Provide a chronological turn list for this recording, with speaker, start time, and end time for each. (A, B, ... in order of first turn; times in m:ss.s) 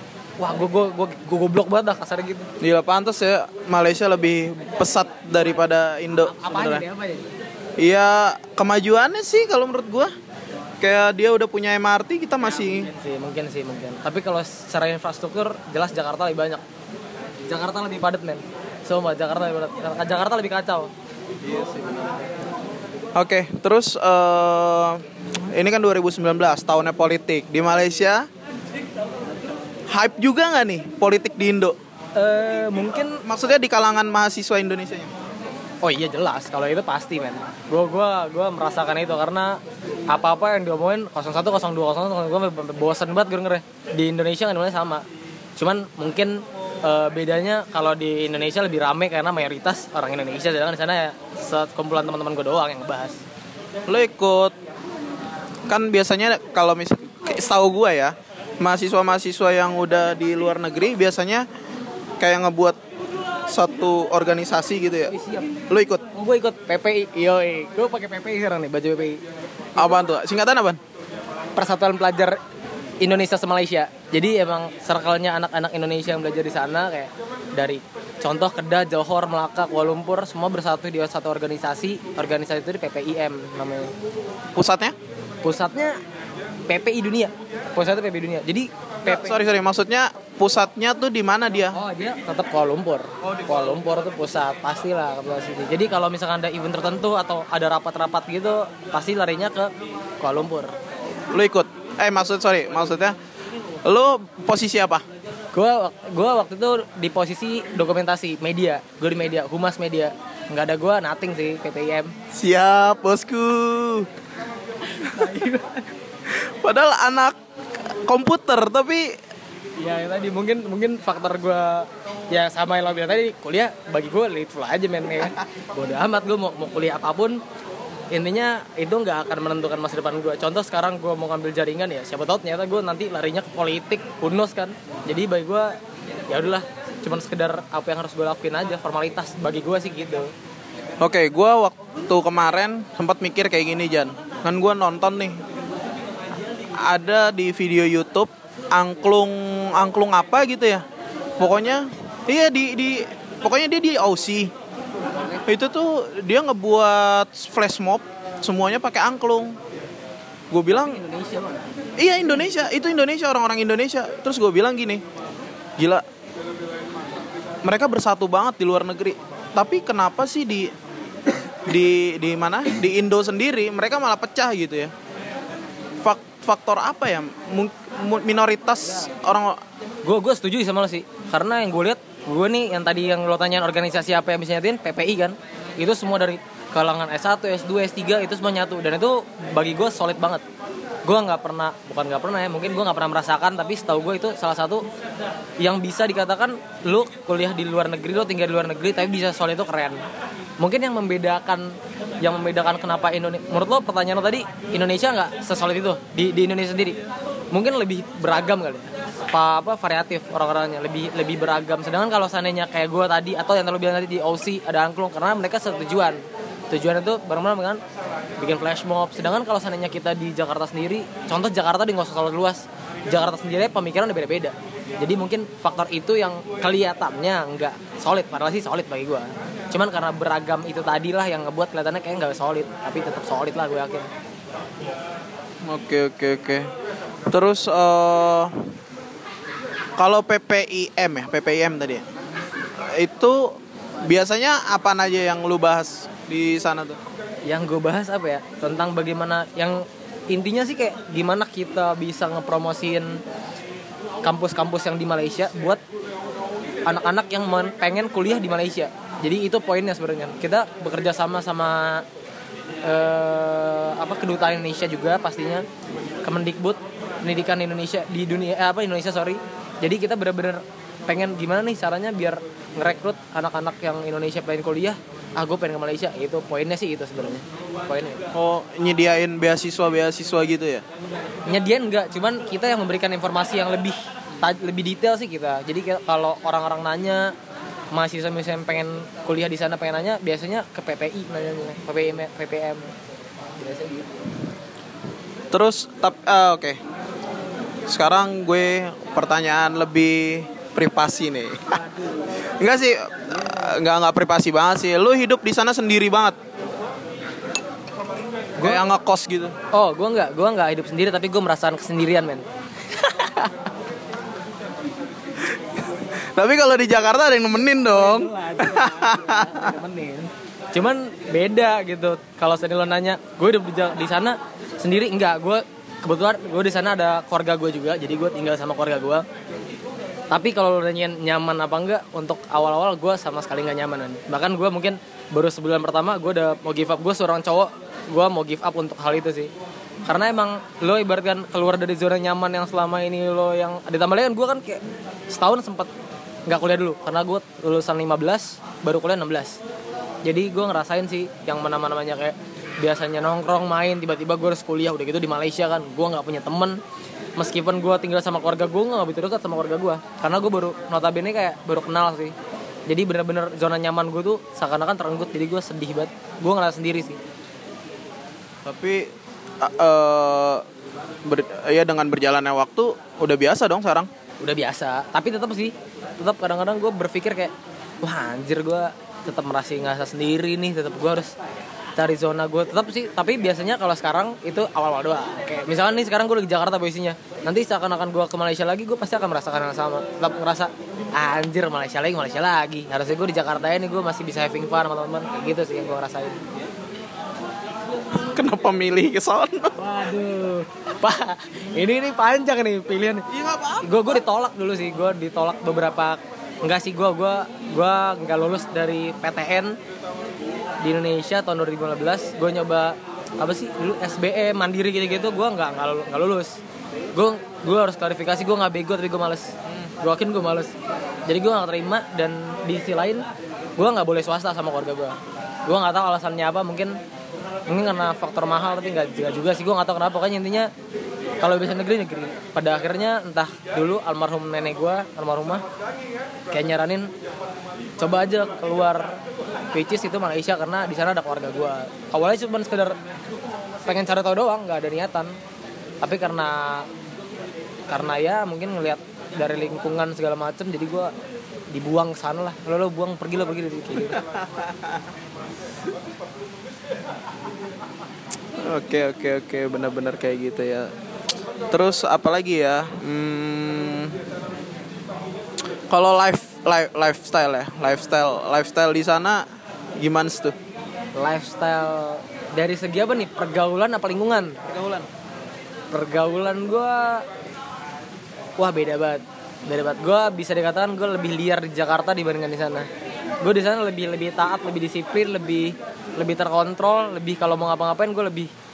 0:00.4-0:02.5 A
0:02.6-0:06.8 B
0:06.1-0:07.3 A
0:07.8-0:10.1 B
0:10.8-0:12.9 B
0:12.4-0:16.6 A
0:17.5-0:20.9 A
0:21.4-0:22.1 B
0:23.1-0:28.3 B
0:29.9-0:31.8 B
0:32.2-0:33.2 A
0:33.2-0:35.1 B
0:35.8-0:39.6 A
0:40.1-0:45.0 A
0:45.6-0:53.2 A
0:53.9-0:54.5 B
0:55.7-1:01.4 B
1:02.2-1:02.8 B
1:03.5-1:05.1 B
1:05.1-1:05.5 A
1:05.7-1:06.0 B
1:06.1-1:09.2 A
1:09.8-1:10.8 B
1:11.6-1:12.4 A
1:13.0-1:23.9 A
1:24.6-1:24.9 B
1:25.4-1:26.0 A
1:26.7-1:29.4 A
1:29.0-1:31.8 B
1:31.7-1:40.7 A
1:41.3-1:43.2 B
1:43.8-1:45.0 B
1:45.5-1:52.1 A
1:52.3-1:54.1 B
1:54.9-1:55.8 A
1:56.3-1:57.4 B
1:58.0-1:59.2 B
1:59.8-2:07.4 A
2:08.1-2:15.7 A
2:16.3-2:20.3 A
2:21.0-2:25.4 B
2:26.8-2:30.8 B
2:31.4-2:34.5 B
2:35.1-2:35.4 A
2:35.5-2:39.6 B
2:40.5-2:41.0 B
2:40.7-2:41.7 A
2:42.0-2:45.0 B
2:45.8-2:46.0 B
2:47.6-2:50.7 B
2:51.6-2:54.9 B
2:56.0-2:59.6 B
2:58.8-2:59.1 A
3:00.0-3:10.4 A
3:11.0-3:14.8 A
3:15.6-3:20.0 A
3:20.6-3:27.0 A
3:27.5-3:37.8 A
3:38.4-3:54.1 A
3:55.7-3:56.7 B
3:57.3-3:58.6 B
4:00.0-4:02.0 B
4:03.0-4:03.5 B
4:04.0-4:07.0 B
4:07.5-4:13.2 A
4:14.2-4:15.8 A
4:16.9-4:22.0 A
4:22.8-4:25.6 A
4:26.2-4:38.2 A
4:38.3-4:40.8 B
4:41.5-4:47.3 A
4:47.9-4:52.8 A
4:53.6-4:54.1 A
4:55.5-4:56.8 B
4:57.9-5:01.8 B
5:02.6-5:06.4 B
5:08.6-5:09.5 B
5:09.7-5:13.7 A
5:16.3-5:19.6 B
5:17.8-5:29.2 A
5:30.3-5:39.5 A
5:40.1-5:45.9 A
5:46.5-5:49.6 A
5:50.2-5:56.8 A
5:57.4-6:02.3 A
6:02.9-6:07.2 A
6:08.6-6:09.0 B
6:09.6-6:10.6 B
6:11.2-6:14.1 B
6:14.4-6:21.3 A
6:22.0-6:36.4 A
6:38.2-6:39.9 B
6:39.8-6:43.2 A
6:43.3-6:44.2 B
6:43.8-6:49.8 A
6:50.8-6:56.5 A
6:57.1-6:59.5 A
7:00.0-7:00.7 A
7:01.3-7:03.2 A
7:03.8-7:07.0 A
7:07.7-7:10.7 A
7:11.4-7:15.6 A
7:16.5-7:17.1 A
7:18.0-7:19.1 A
7:19.7-7:22.9 A
7:23.8-7:25.3 A
7:26.0-7:26.8 A
7:27.9-7:31.1 A
7:31.7-7:34.2 A
7:34.0-7:35.0 B
7:38.7-7:40.9 B
7:41.7-7:44.2 B
7:45.9-7:49.4 B
7:50.0-7:50.6 B
7:51.2-7:54.6 A
7:54.6-7:55.1 B
7:55.9-7:57.2 A
7:58.6-8:02.9 A
8:03.4-8:08.5 A